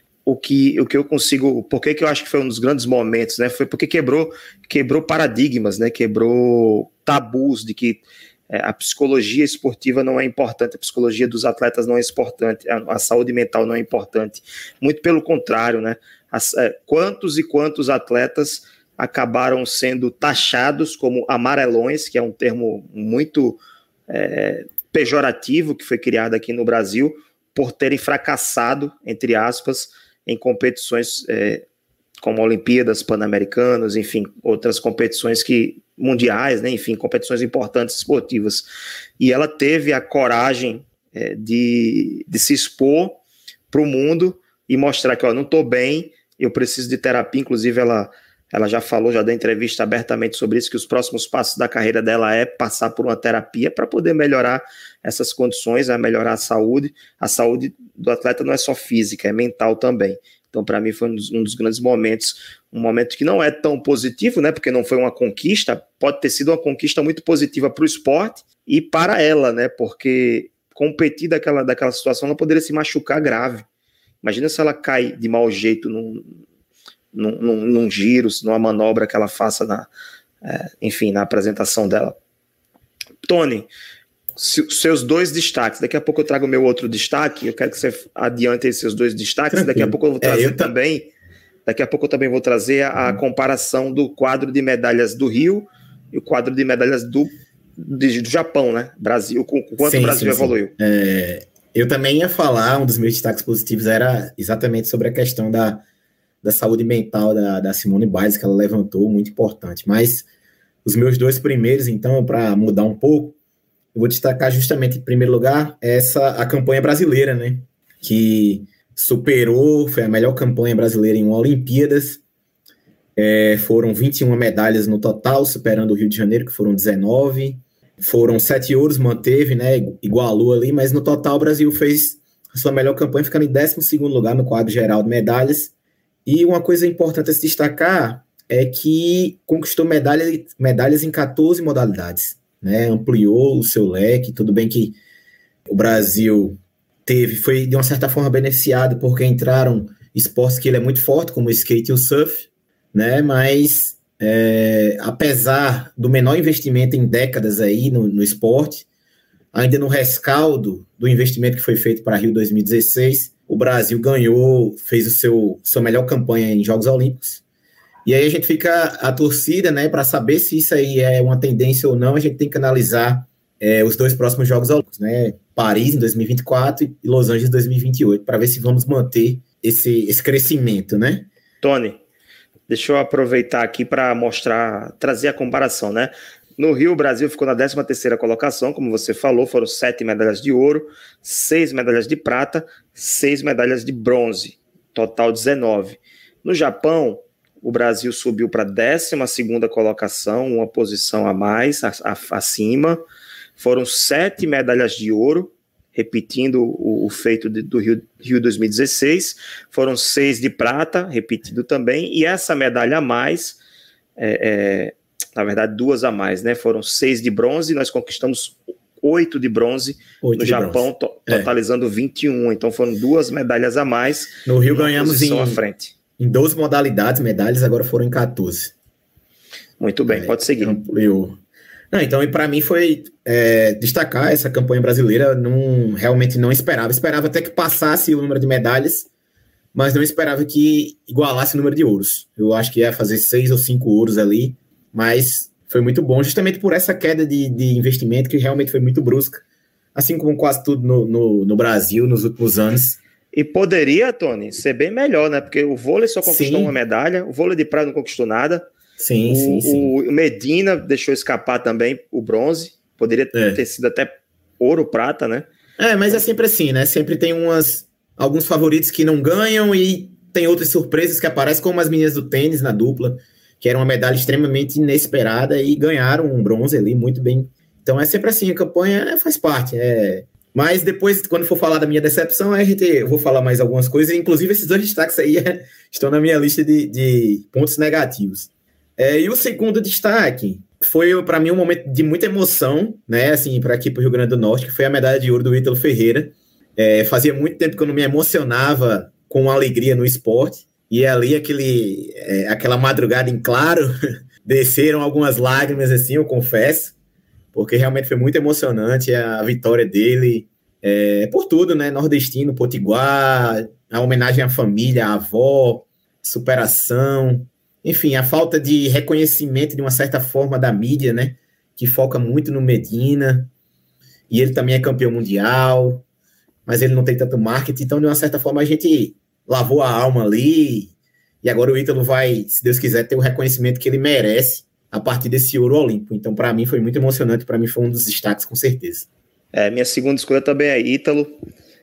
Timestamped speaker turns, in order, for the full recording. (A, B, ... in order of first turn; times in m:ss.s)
0:00.2-0:31.6 A
0:32.2-0:38.7 A
0:39.2-0:43.2 A
0:43.7-1:13.6 A
1:14.2-1:16.2 A
1:17.1-1:19.9 A
1:20.4-1:22.2 A
1:23.2-1:23.7 A
1:24.4-1:31.1 A
1:29.5-1:30.7 B
1:31.7-1:40.7 A
1:39.8-1:45.8 B
1:46.4-1:50.3 B
1:50.8-1:53.4 B
1:53.9-2:02.2 B
2:03.2-2:15.7 B
2:16.3-2:25.0 B
2:25.7-2:38.9 B
2:39.5-2:47.4 B
2:48.0-3:01.3 B
3:01.6-3:02.0 A
3:02.7-3:23.0 A
3:23.6-3:33.6 A
3:34.2-3:45.9 A
3:40.2-3:41.5 B
3:44.4-3:45.6 B
3:46.2-3:48.7 B
3:49.8-3:50.8 A
3:50.1-3:51.4 B
3:51.9-3:59.1 B
3:59.7-4:09.4 B
4:09.9-4:13.0 B
4:13.3-4:18.7 A
4:16.2-4:16.7 B
4:19.0-4:19.9 B
4:19.3-4:25.5 A
4:23.3-4:23.6 B
4:25.8-5:03.9 B
5:04.4-5:06.9 B
5:07.5-5:23.5 B
5:24.3-5:26.0 B
5:26.7-5:39.1 B
5:39.5-5:41.4 A